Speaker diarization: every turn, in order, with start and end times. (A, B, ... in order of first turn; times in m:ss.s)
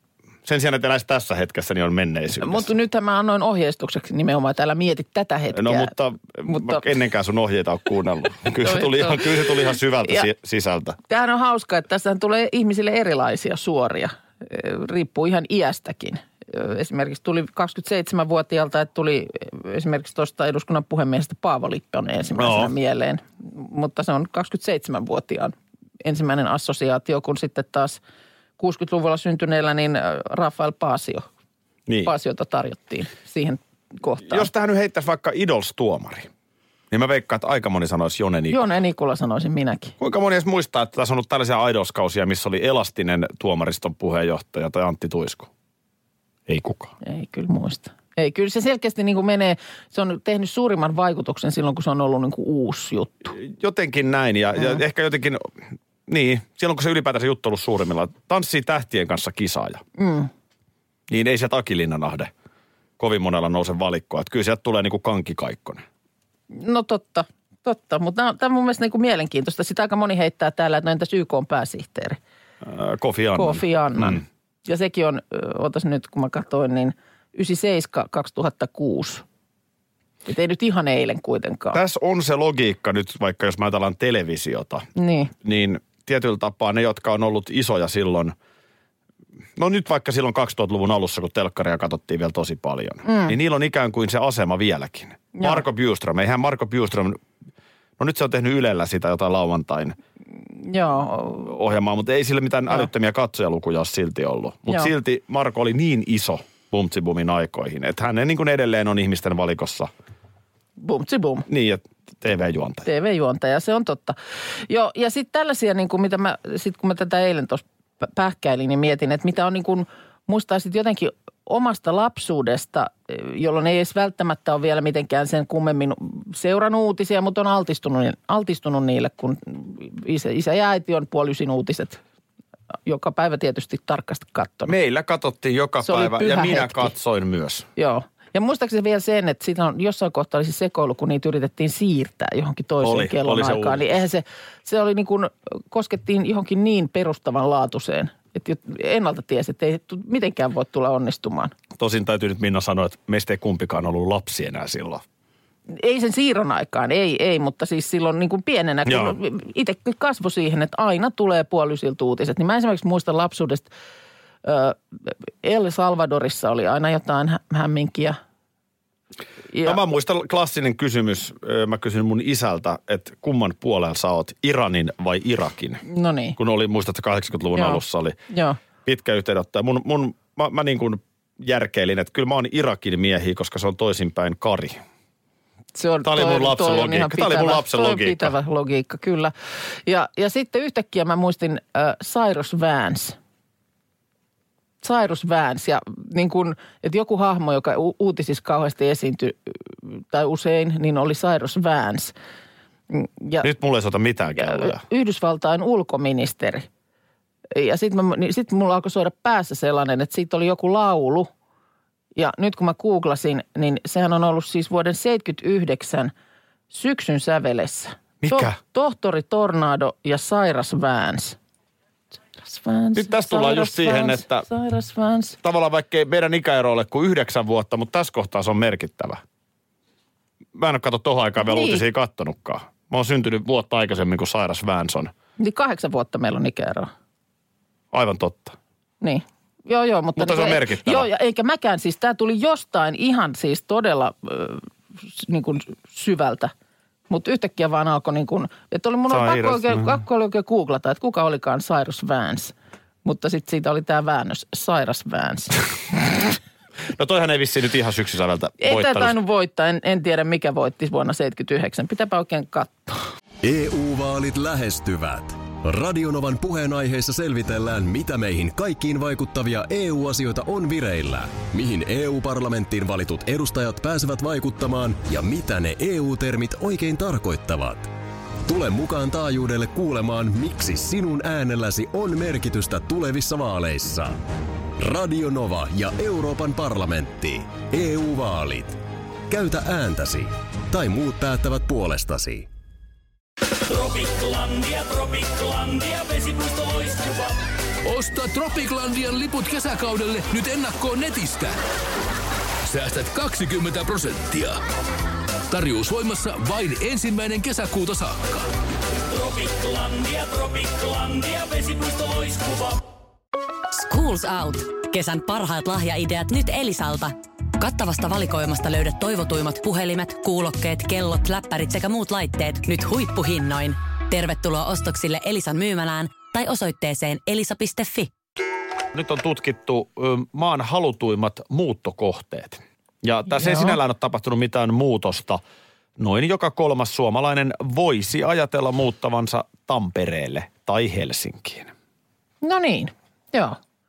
0:00.4-0:02.7 A
0:02.4-0:05.9 B
0:05.5-0:11.0 A
0:06.4-0:06.8 B
0:08.6-0:09.5 B
0:11.1-0:28.0 B
0:22.4-0:22.7 A
0:28.6-0:31.3 B
0:31.9-0:32.1 A
0:32.0-0:34.5 B
0:34.2-0:36.3 A
0:36.9-0:38.6 A
0:38.5-0:39.9 B
0:40.0-0:45.5 A
0:46.5-0:46.9 A
0:47.0-0:53.3 B
0:53.3-0:55.5 A
0:56.1-0:59.8 A
1:00.0-1:00.3 B
1:01.1-1:02.3 A
1:03.0-1:05.8 A
1:06.5-1:12.2 B
1:12.6-1:14.2 A
1:13.4-1:19.2 B
1:20.2-1:21.8 B
1:21.7-1:24.9 A
1:25.0-1:25.3 B
1:25.4-1:28.4 A
1:29.6-1:37.2 A
1:33.0-1:33.4 B
1:35.4-1:35.6 B
1:38.0-1:40.0 A
1:40.5-1:41.5 B
1:41.4-1:49.9 A
1:50.8-1:51.5 B
1:51.5-1:52.9 A
1:52.9-1:54.2 B
1:54.7-2:12.0 B
2:12.8-2:14.8 B
2:14.6-2:17.7 A
2:15.8-2:16.9 B
2:17.8-2:31.5 B
2:22.8-2:23.9 A
2:31.8-2:35.0 A
2:35.7-2:43.7 B
2:38.9-2:39.2 A
2:44.4-2:48.2 B
2:49.5-2:49.8 B
2:49.6-2:55.8 A
2:55.9-2:56.4 B
2:56.4-2:58.2 A
2:57.5-2:58.6 B
2:58.8-3:04.8 A
3:05.8-3:09.3 B
3:06.0-3:08.3 A
3:09.9-3:13.2 B
3:14.8-3:22.1 B
3:22.9-3:23.5 B
3:23.4-3:24.8 A
3:24.4-3:26.7 B
3:27.5-3:31.3 B
3:32.2-3:36.1 B
3:36.7-3:41.4 B
3:38.2-3:38.6 A
3:42.3-3:45.4 B
3:42.9-3:44.4 A
3:45.4-3:49.2 A
3:50.5-3:55.1 A
3:51.4-3:51.8 B
3:55.4-3:56.9 B
3:57.9-3:58.6 A
3:59.0-4:06.5 B
4:00.2-4:01.1 A
4:07.1-4:12.5 B
4:09.1-4:10.0 A
4:13.0-4:15.6 B
4:16.9-4:19.2 A
4:18.6-4:23.0 B
4:23.4-4:37.9 C
4:38.4-4:44.2 C
4:44.8-4:52.5 C
4:53.7-5:01.6 D
5:02.6-5:04.6 D
5:05.5-5:08.4 D
5:09.1-5:12.8 D
5:13.7-5:28.1 E
5:28.9-5:35.4 A
5:33.3-5:33.8 B
5:36.0-5:41.7 A
5:42.4-5:43.6 B